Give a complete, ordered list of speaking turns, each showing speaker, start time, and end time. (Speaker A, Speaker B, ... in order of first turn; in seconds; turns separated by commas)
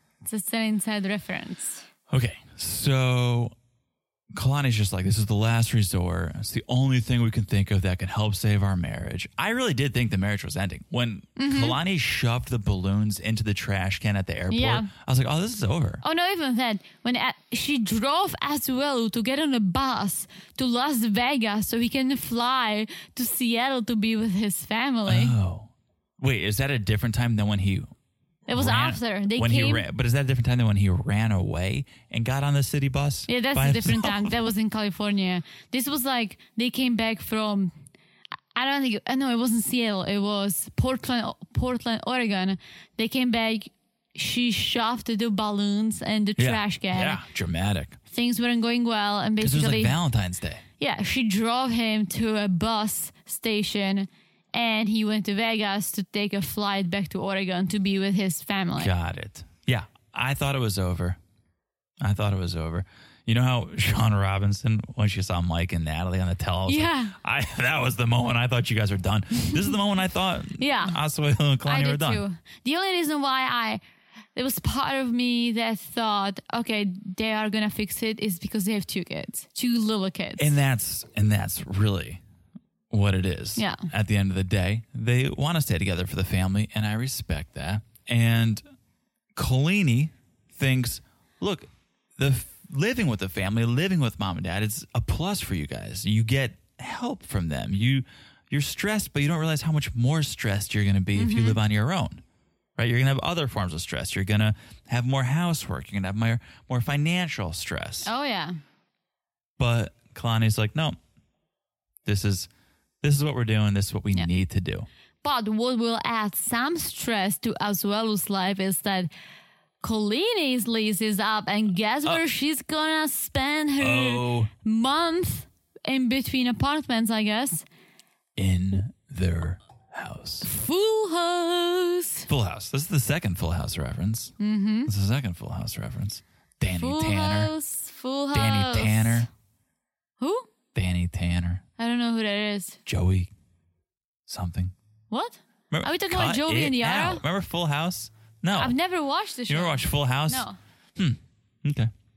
Speaker A: 0.2-1.9, Speaker B: 2.1-3.5, Speaker B: 4.3-16.0, Speaker A: 11.4-11.8, Speaker A: 14.5-14.9, Speaker A: 16.0-25.4, Speaker B: 25.1-27.9, Speaker A: 28.5-29.9, Speaker B: 28.5-34.4, Speaker A: 33.3-37.7, Speaker A: 38.5-47.2, Speaker B: 46.4-48.0, Speaker A: 48.1-50.0, Speaker B: 49.4-50.6, Speaker A: 50.8-58.9, Speaker B: 58.8-61.2, Speaker B: 62.0-72.2, Speaker A: 66.7-67.2, Speaker A: 70.6-71.0, Speaker A: 71.7-73.8, Speaker A: 74.3-80.5, Speaker B: 80.4-82.2, Speaker B: 82.9-88.6, Speaker A: 83.6-83.9, Speaker B: 89.4-91.7, Speaker B: 92.2-102.2, Speaker A: 101.2-101.6, Speaker B: 102.8-108.1, Speaker A: 108.0-108.6, Speaker B: 109.6-111.0, Speaker B: 112.1-112.5, Speaker B: 113.0-114.9, Speaker A: 115.2-119.1, Speaker A: 119.8-127.7, Speaker B: 123.8-124.5, Speaker B: 128.4-130.5, Speaker A: 130.4-132.3, Speaker B: 132.3-134.3, Speaker A: 134.4-134.9, Speaker B: 134.9-137.5, Speaker A: 136.7-139.3, Speaker B: 138.3-139.3, Speaker A: 140.2-140.5, Speaker B: 140.8-141.6, Speaker A: 141.8-142.8, Speaker B: 142.9-143.3, Speaker B: 144.3-144.7, Speaker A: 145.1-147.2, Speaker B: 145.7-148.8, Speaker A: 148.5-150.6, Speaker B: 149.5-150.5, Speaker B: 151.0-151.9